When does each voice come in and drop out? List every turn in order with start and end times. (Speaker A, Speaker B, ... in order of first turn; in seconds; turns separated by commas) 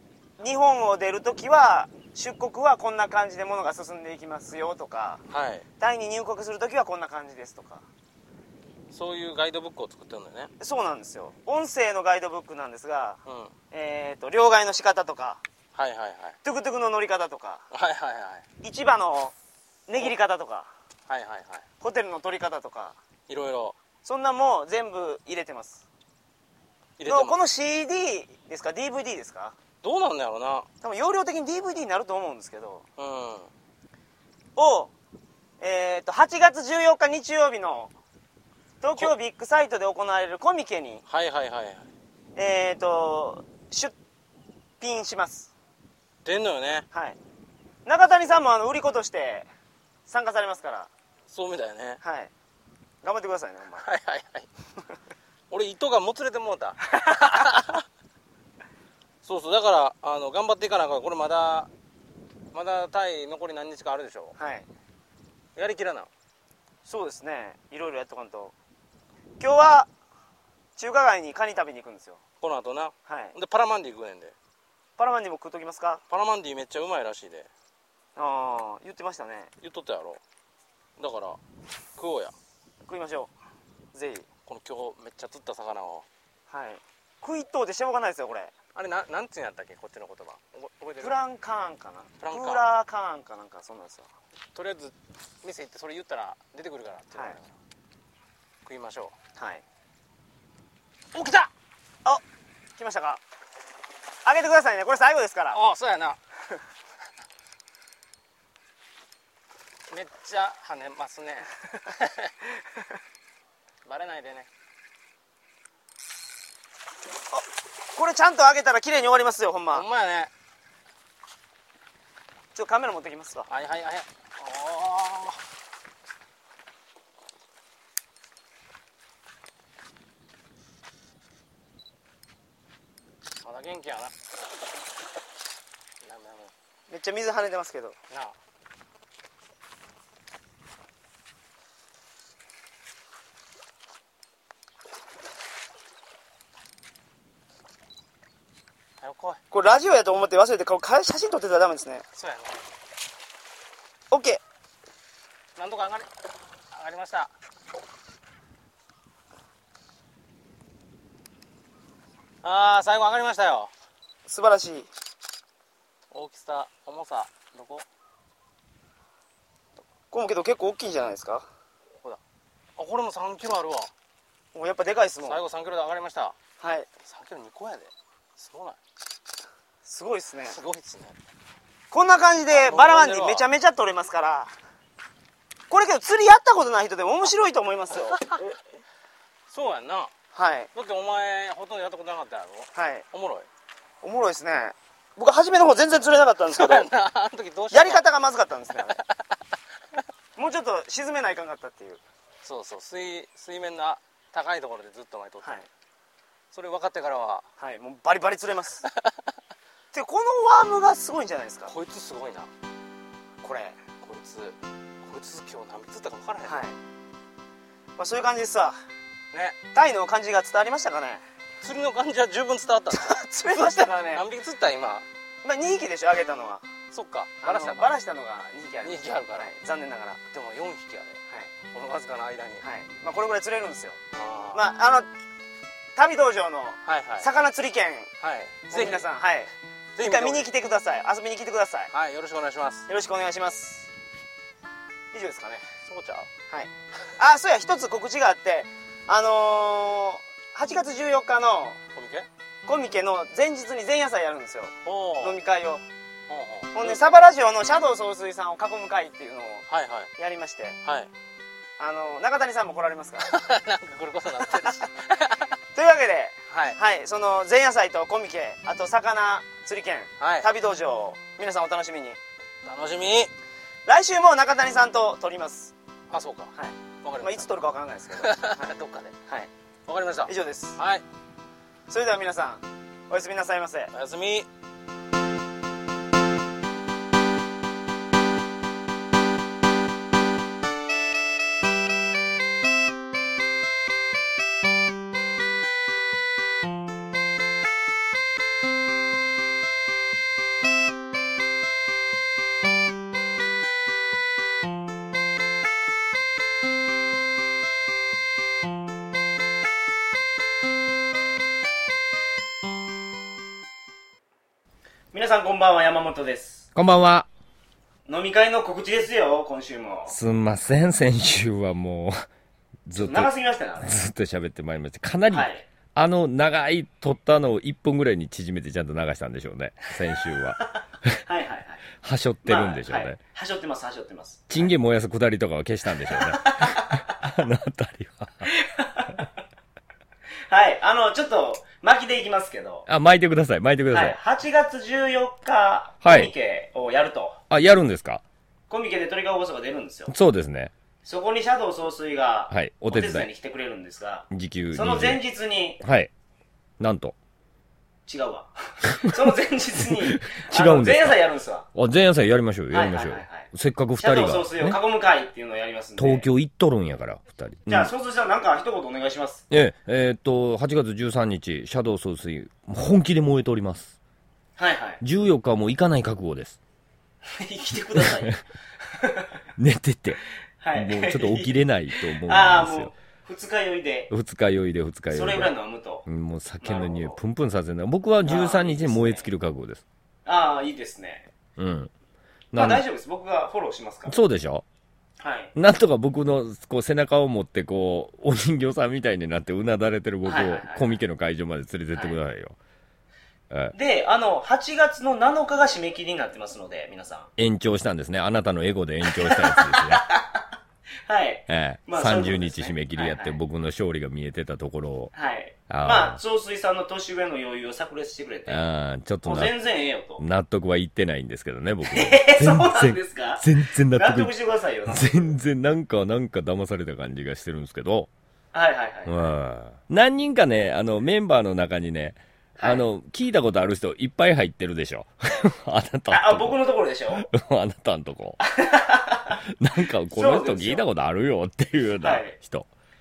Speaker A: 0.4-5.2, Speaker B: 5.3-5.7, Speaker A: 5.8-7.8, Speaker B: 8.9-10.5, Speaker A: 10.6-15.4, Speaker B: 13.2-13.5, Speaker B: 15.7-16.4, Speaker A: 16.4-17.6, Speaker B: 17.7-18.4, Speaker A: 18.6-19.3, Speaker A: 19.9-20.7, Speaker B: 21.1-21.7, Speaker A: 21.8-23.0, Speaker B: 23.3-23.8, Speaker A: 24.0-25.9, Speaker B: 27.0-27.4, Speaker A: 27.0-29.6, Speaker B: 29.8-30.7, Speaker A: 30.8-32.8, Speaker B: 33.0-33.5, Speaker A: 34.5-34.9, Speaker A: 35.6-37.9, Speaker A: 38.8-41.0, Speaker B: 41.1-41.9, Speaker A: 42.4-43.9, Speaker A: 44.8-45.5, Speaker B: 46.2-46.9, Speaker A: 46.9-47.2, Speaker A: 47.9-49.5, Speaker A: 50.1-50.9, Speaker B: 51.3-52.0, Speaker A: 52.0-52.3, Speaker A: 53.0-53.8, Speaker B: 53.8-54.5, Speaker B: 55.5-57.8, Speaker A: 57.0-57.4, Speaker B: 59.2-61.7, Speaker B: 62.5-64.3, Speaker A: 64.4-64.7, Speaker B: 65.5-66.1, Speaker A: 66.8-68.5, Speaker A: 69.4-69.9, Speaker A: 70.8-72.2, Speaker B: 72.4-74.3, Speaker A: 73.0-73.3, Speaker A: 75.0-76.0, Speaker B: 76.1-77.5, Speaker A: 78.2-79.5, Speaker B: 79.6-80.2, Speaker B: 81.0-81.4, Speaker B: 82.0-82.3, Speaker A: 82.8-83.3, Speaker A: 83.9-84.3, Speaker B: 84.5-86.0, Speaker A: 86.5-88.5, Speaker B: 88.7-91.2, Speaker A: 91.0-94.1, Speaker B: 92.2-92.6, Speaker B: 94.5-97.5, Speaker B: 98.6-99.2, Speaker A: 99.3-99.6, Speaker B: 101.1-101.5, Speaker A: 102.8-103.2, Speaker A: 104.2-105.6, Speaker B: 105.5-106.2, Speaker B: 109.9-112.3, Speaker B: 113.8-114.5, Speaker A: 117.3-119.9, Speaker B: 119.7-120.3, Speaker A: 122.5-123.5, Speaker B: 123.5-125.4, Speaker B: 133.4-134.1, Speaker B: 136.0-136.5, Speaker A: 136.9-137.9, Speaker B: 138.1-138.3, Speaker B: 149.0-149.4, Speaker A: 149.5-152.0, Speaker B: 152.1-152.6, Speaker A: 154.1-154.4, Speaker B: 155.6-156.1, Speaker B: 156.7-157.3, Speaker B: 162.4-163.7, Speaker A: 164.2-164.9, Speaker B: 166.1-167.8, Speaker A: 170.1-171.5, Speaker B: 172.8-173.9, Speaker A: 174.5-175.4, Speaker B: 175.2-176.4, Speaker A: 176.6-176.9, Speaker B: 177.0-178.8, Speaker A: 179.8-180.6, Speaker B: 180.4-181.2, Speaker A: 181.9-184.5, Speaker B: 182.5-183.5, Speaker A: 185.7-188.4, Speaker B: 189.5-190.1, Speaker A: 190.3-190.7, Speaker B: 190.7-193.5, Speaker A: 192.7-193.1, Speaker A: 194.0-196.9, Speaker B: 196.5-198.1, Speaker A: 197.7-199.0, Speaker B: 198.9-199.2, Speaker A: 200.3-202.0, Speaker B: 202.4-205.6, Speaker A: 205.4-205.7, Speaker B: 206.5-207.5, Speaker A: 207.6-208.8, Speaker B: 208.8-209.2, Speaker A: 209.9-211.7, Speaker B: 211.7-212.5, Speaker A: 213.4-213.8, Speaker B: 214.0-216.6, Speaker A: 216.4-216.8, Speaker A: 218.0-218.7, Speaker B: 219.3-219.6, Speaker A: 219.7-221.2, Speaker B: 221.6-225.1, Speaker A: 222.9-224.2, Speaker A: 225.4-226.7, Speaker B: 226.9-227.9, Speaker A: 227.4-230.2, Speaker B: 228.8-229.5, Speaker B: 230.3-232.7, Speaker A: 232.6-234.0, Speaker B: 234.1-234.7, Speaker A: 234.5-235.1, Speaker A: 235.9-238.1, Speaker B: 236.8-237.3, Speaker B: 238.2-239.0, Speaker A: 238.7-241.9, Speaker B: 239.9-240.5, Speaker B: 241.9-242.9, Speaker A: 242.9-243.9, Speaker A: 245.1-245.6, Speaker B: 245.8-246.3, Speaker A: 246.5-251.8, Speaker B: 251.9-252.3, Speaker A: 252.7-255.8, Speaker B: 254.8-255.4, Speaker B: 256.3-257.1, Speaker A: 256.7-259.6, Speaker B: 259.7-260.1, Speaker A: 260.2-260.8, Speaker B: 260.8-261.1, Speaker A: 261.8-263.3, Speaker B: 263.2-265.6, Speaker A: 265.7-272.2, Speaker B: 266.5-266.8, Speaker B: 270.2-270.5, Speaker B: 272.6-273.3, Speaker A: 273.9-275.7, Speaker B: 276.1-277.5, Speaker A: 276.5-278.7, Speaker B: 278.1-279.2, Speaker B: 279.9-281.0, Speaker A: 280.3-280.8, Speaker A: 281.9-283.9, Speaker B: 283.9-284.5, Speaker A: 315.1-316.6, Speaker C: 316.7-317.3, Speaker A: 318.1-320.1, Speaker C: 320.1-322.1, Speaker C: 322.9-323.3, Speaker A: 322.9-323.9, Speaker C: 323.8-331.2, Speaker A: 325.3-325.6, Speaker A: 330.1-331.8, Speaker C: 332.0-333.2, Speaker A: 332.4-334.7, Speaker C: 334.5-338.5, Speaker A: 335.9-337.3, Speaker A: 338.5-339.1, Speaker A: 340.5-342.8, Speaker C: 342.9-344.2, Speaker A: 343.9-347.4, Speaker C: 346.0-346.3, Speaker C: 347.5-348.2, Speaker A: 348.7-350.1, Speaker C: 350.1-350.7, Speaker A: 351.0-355.8, Speaker C: 352.5-353.3, Speaker C: 354.3-355.2, Speaker C: 355.8-356.1, Speaker C: 356.8-357.1, Speaker A: 358.1-361.7, Speaker C: 358.8-359.2, Speaker C: 359.9-361.2, Speaker C: 361.7-364.8, Speaker A: 362.7-366.3, Speaker C: 366.0-367.9, Speaker A: 367.7-369.4, Speaker C: 369.5-373.9, Speaker A: 374.6-375.0, Speaker C: 375.0-376.6, Speaker A: 377.2-379.4, Speaker C: 377.9-378.4, Speaker C: 379.6-382.9, Speaker A: 380.6-384.1, Speaker C: 384.1-385.5, Speaker A: 385.1-386.0, Speaker C: 386.0-389.8, Speaker A: 386.6-387.2, Speaker A: 388.2-389.3, Speaker A: 390.2-391.3, Speaker C: 391.6-391.9, Speaker C: 392.5-392.8, Speaker A: 392.5-394.1, Speaker C: 394.1-394.6, Speaker A: 395.2-395.5, Speaker C: 395.6-402.6, Speaker A: 400.2-401.0, Speaker A: 401.9-402.2, Speaker A: 403.7-407.3, Speaker C: 407.4-410.1, Speaker A: 409.0-410.4, Speaker A: 411.0-413.4, Speaker C: 411.5-415.1, Speaker A: 415.1-418.6, Speaker C: 415.7-416.2, Speaker C: 418.5-419.5, Speaker A: 419.2-420.2, Speaker C: 420.2-424.3, Speaker A: 421.9-425.4, Speaker C: 424.8-428.1, Speaker A: 428.5-429.3, Speaker C: 429.1-438.4, Speaker A: 432.6-432.8, Speaker A: 436.1-437.3, Speaker A: 438.4-439.4, Speaker C: 439.3-442.7, Speaker A: 440.1-440.8, Speaker A: 442.0-442.4